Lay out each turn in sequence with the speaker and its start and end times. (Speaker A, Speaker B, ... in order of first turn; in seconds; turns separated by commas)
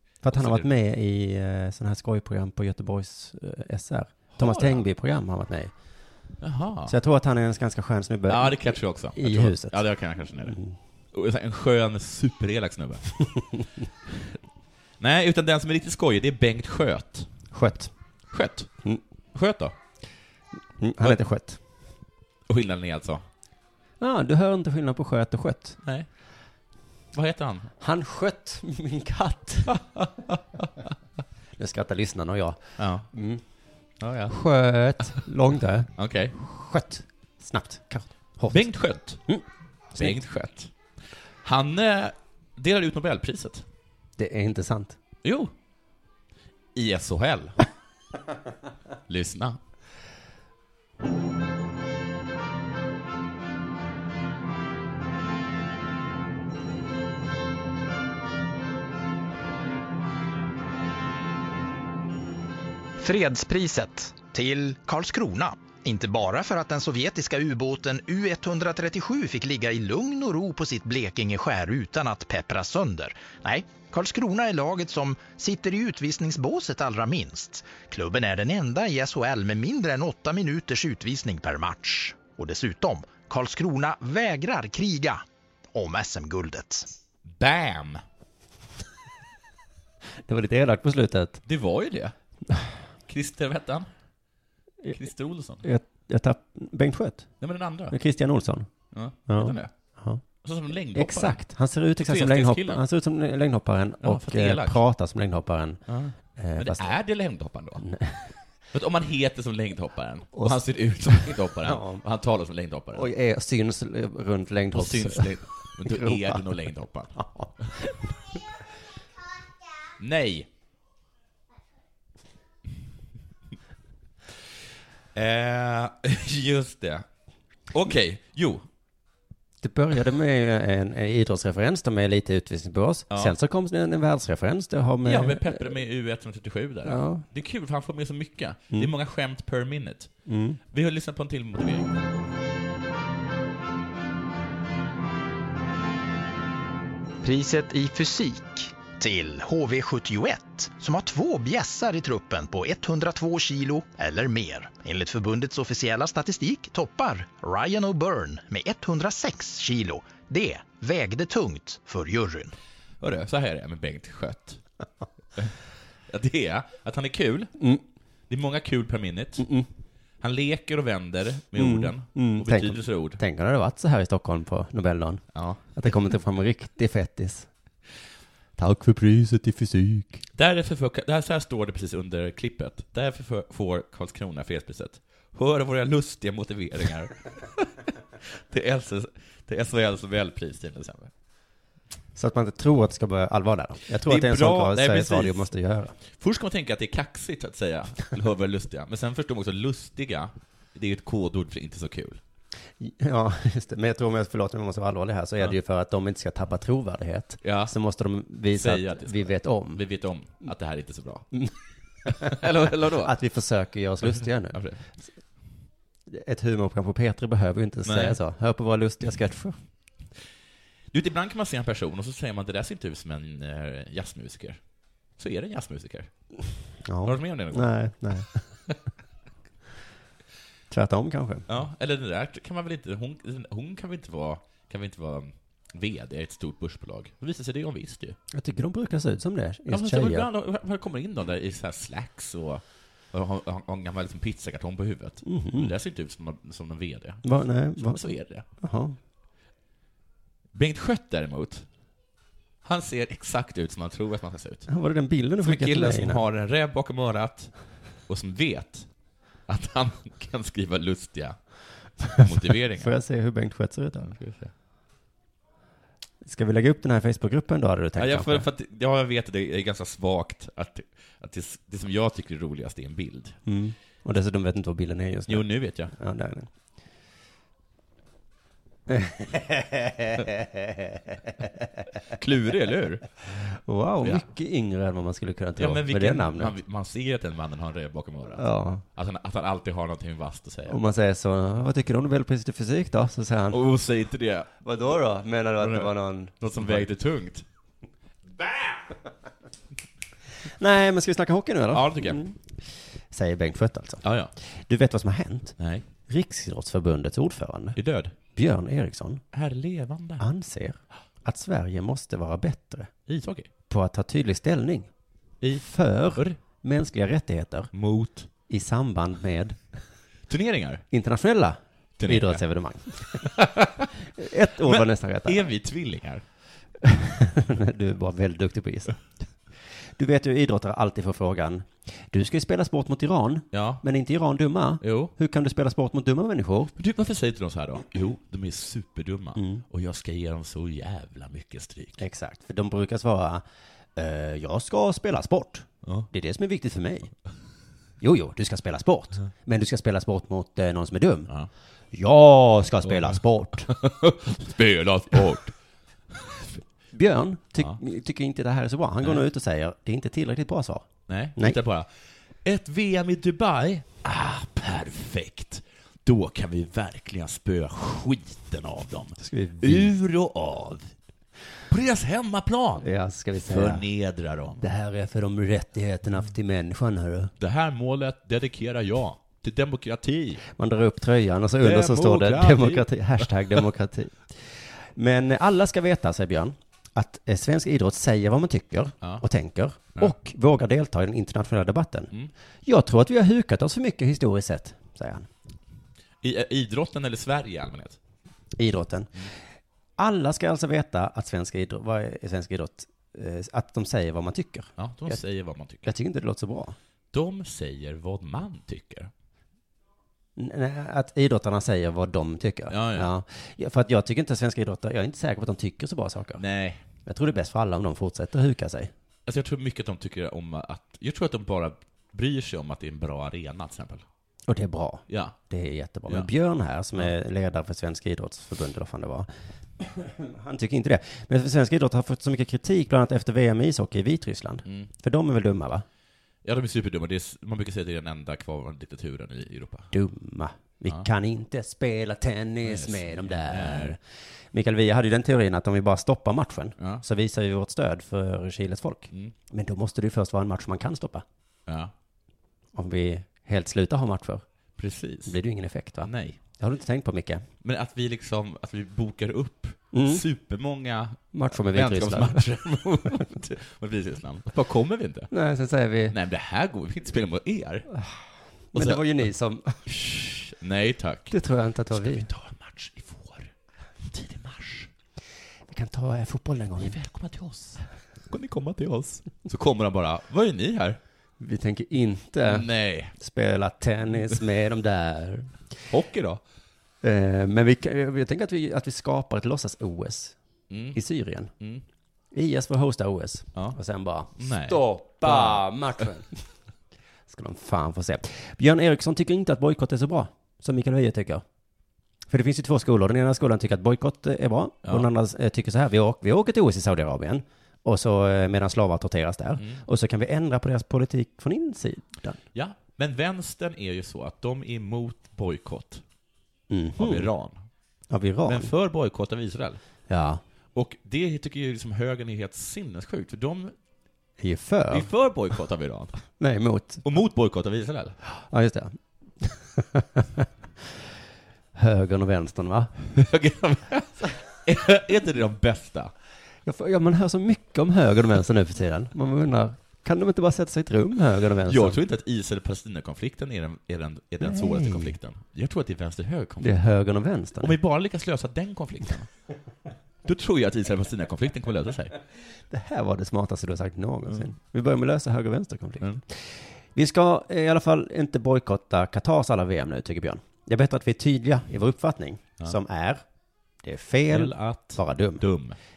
Speaker A: 0.2-5.7, Speaker B: 0.3-0.7, Speaker B: 4.4-4.8, Speaker B: 6.4-6.9, Speaker A: 6.8-9.8, Speaker B: 8.3-10.6, Speaker A: 10.5-10.7, Speaker B: 11.1-13.1, Speaker B: 15.0-17.3, Speaker A: 17.5-17.9, Speaker B: 18.3-18.7, Speaker B: 19.3-19.8, Speaker A: 20.8-21.6, Speaker B: 22.5-23.2, Speaker A: 24.0-25.8, Speaker B: 25.8-26.1, Speaker B: 27.1-27.7, Speaker A: 27.8-29.8, Speaker B: 29.7-30.7, Speaker A: 31.6-33.4, Speaker B: 32.8-33.1, Speaker B: 34.0-34.3, Speaker A: 34.3-38.7, Speaker B: 36.0-36.3, Speaker B: 38.5-39.2, Speaker B: 39.9-40.7, Speaker B: 41.4-43.6, Speaker A: 44.2-45.0, Speaker B: 45.2-45.5, Speaker B: 46.8-47.6, Speaker B: 49.1-49.6, Speaker C: 63.0-85.2, Speaker C: 85.7-86.9, Speaker B: 87.3-88.0, Speaker A: 90.2-91.4, Speaker B: 91.5-92.1, Speaker B: 93.1-93.9, Speaker B: 94.9-95.6, Speaker A: 95.6-97.3, Speaker B: 97.4-98.0, Speaker A: 97.9-98.7, Speaker B: 98.9-99.7, Speaker A: 99.2-100.2, Speaker B: 100.4-101.4, Speaker A: 100.9-105.8, Speaker B: 102.0-102.8, Speaker B: 104.0-104.8, Speaker B: 105.9-107.8, Speaker A: 106.3-106.9, Speaker A: 107.8-108.3, Speaker B: 108.7-113.1, Speaker A: 110.3-112.0, Speaker A: 112.9-116.4, Speaker B: 114.7-117.7, Speaker A: 117.2-118.1, Speaker B: 120.0-120.5, Speaker B: 125.1-127.0, Speaker B: 127.7-128.6, Speaker A: 129.6-135.7, Speaker B: 135.0-140.1, Speaker A: 136.8-137.2, Speaker A: 140.2-140.6, Speaker B: 140.7-142.1, Speaker C: 147.2-162.5, Speaker B: 163.0-164.6, Speaker B: 166.1-167.5, Speaker A: 167.6-167.8, Speaker B: 168.3-169.4, Speaker A: 169.4-169.7, Speaker B: 170.2-173.2, Speaker A: 171.6-175.2, Speaker B: 175.3-175.6, Speaker A: 175.7-177.5, Speaker A: 178.6-180.2, Speaker B: 180.3-191.1, Speaker A: 192.2-195.9, Speaker B: 194.0-195.5, Speaker B: 196.1-202.2, Speaker A: 202.8-209.8, Speaker B: 207.4-207.7, Speaker B: 208.5-211.3, Speaker A: 212.1-214.6, Speaker B: 212.1-213.1, Speaker B: 214.5-214.8, Speaker A: 216.1-219.6, Speaker B: 217.8-218.2, Speaker B: 220.9-224.6, Speaker B: 225.2-226.1, Speaker A: 226.8-228.5, Speaker B: 227.0-227.7, Speaker A: 230.7-231.5, Speaker B: 231.5-238.2, Speaker A: 238.3-240.3, Speaker B: 239.7-248.4, Speaker A: 245.2-245.7, Speaker A: 247.2-249.0, Speaker B: 250.5-251.7, Speaker B: 252.6-254.7, Speaker A: 254.7-256.2, Speaker B: 255.4-257.5, Speaker B: 258.1-258.9, Speaker B: 259.5-262.9, Speaker A: 262.1-264.1, Speaker B: 264.1-264.5, Speaker A: 266.2-268.5, Speaker B: 268.0-273.4, Speaker A: 273.4-276.5, Speaker B: 275.3-275.9, Speaker A: 278.9-281.4, Speaker B: 282.1-283.1, Speaker A: 283.6-286.6, Speaker B: 285.6-290.8, Speaker A: 288.4-288.8, Speaker A: 290.7-293.6, Speaker B: 293.5-294.5, Speaker A: 294.6-296.9, Speaker B: 295.6-297.4, Speaker B: 298.4-298.8, Speaker A: 300.4-305.6, Speaker B: 301.7-302.2, Speaker B: 304.0-304.3, Speaker B: 305.6-305.8, Speaker A: 306.1-307.8, Speaker B: 307.8-308.1, Speaker A: 308.3-309.2, Speaker B: 309.3-310.2, Speaker A: 310.2-312.9, Speaker B: 313.1-313.5, Speaker A: 313.7-314.9, Speaker B: 315.4-316.4, Speaker A: 315.6-317.7, Speaker B: 317.7-318.3, Speaker A: 318.5-319.6, Speaker B: 320.3-320.8, Speaker A: 320.9-323.5, Speaker B: 322.0-322.4, Speaker B: 323.2-323.9, Speaker A: 324.0-325.5, Speaker B: 324.6-326.2, Speaker A: 326.8-329.0, Speaker A: 329.7-336.7, Speaker B: 333.5-333.8, Speaker B: 334.8-335.1, Speaker B: 336.8-342.0, Speaker A: 339.4-339.6, Speaker A: 342.0-343.4, Speaker A: 343.9-347.1, Speaker B: 345.8-346.1, Speaker A: 348.0-351.3, Speaker A: 351.9-353.7, Speaker B: 352.8-355.5, Speaker B: 356.1-356.5, Speaker A: 356.9-361.6, Speaker B: 361.1-361.9, Speaker B: 362.4-370.9, Speaker A: 369.2-370.0, Speaker B: 371.7-372.9, Speaker A: 372.8-373.9, Speaker B: 373.5-374.6, Speaker A: 374.6-377.3, Speaker B: 377.4-380.4, Speaker A: 380.5-392.1, Speaker B: 381.6-383.6, Speaker A: 392.6-395.3, Speaker B: 396.2-398.0, Speaker A: 398.6-399.3, Speaker A: 400.0-405.2, Speaker B: 404.8-405.9, Speaker A: 405.8-406.8, Speaker B: 407.1-409.1, Speaker A: 410.4-416.4, Speaker B: 412.7-413.1, Speaker B: 416.4-416.8, Speaker A: 417.0-418.9, Speaker B: 419.2-424.1, Speaker A: 424.5-435.8, Speaker B: 425.1-425.4, Speaker B: 436.4-439.9, Speaker A: 439.9-451.2, Speaker B: 442.6-444.0, Speaker B: 451.7-451.9, Speaker A: 452.8-454.4, Speaker B: 454.8-455.4, Speaker A: 455.2-457.4, Speaker B: 456.0-456.4, Speaker B: 457.6-465.3, Speaker A: 459.9-460.2, Speaker A: 461.3-462.5, Speaker A: 465.3-466.1, Speaker B: 466.1-467.9, Speaker A: 468.7-469.9, Speaker B: 468.8-469.2, Speaker B: 469.9-471.4, Speaker A: 471.3-472.3, Speaker B: 471.9-473.5, Speaker B: 474.0-474.9, Speaker A: 475.7-477.0, Speaker B: 476.8-481.0, Speaker A: 481.4-485.6, Speaker B: 482.5-483.1, Speaker B: 485.9-486.4, Speaker A: 487.0-490.4, Speaker B: 490.7-491.0, Speaker A: 490.9-491.5, Speaker B: 491.6-491.8, Speaker A: 492.3-496.4, Speaker B: 494.4-496.0, Speaker A: 497.3-501.4, Speaker A: 502.3-512.4, Speaker B: 512.5-516.0, Speaker A: 516.7-517.3, Speaker B: 517.0-517.6, Speaker A: 518.1-518.7, Speaker B: 518.5-519.8, Speaker A: 520.1-520.4, Speaker B: 520.7-523.8, Speaker A: 524.4-525.1, Speaker B: 524.9-526.1, Speaker A: 526.4-527.0, Speaker B: 527.0-528.1, Speaker A: 528.3-530.5, Speaker A: 531.8-533.0, Speaker B: 533.1-536.1, Speaker A: 536.6-542.0, Speaker B: 541.6-546.8, Speaker A: 544.5-545.0, Speaker A: 546.6-547.8, Speaker B: 547.6-549.3, Speaker B: 550.2-552.1, Speaker A: 552.6-563.2, Speaker A: 563.8-565.5, Speaker B: 564.3-565.8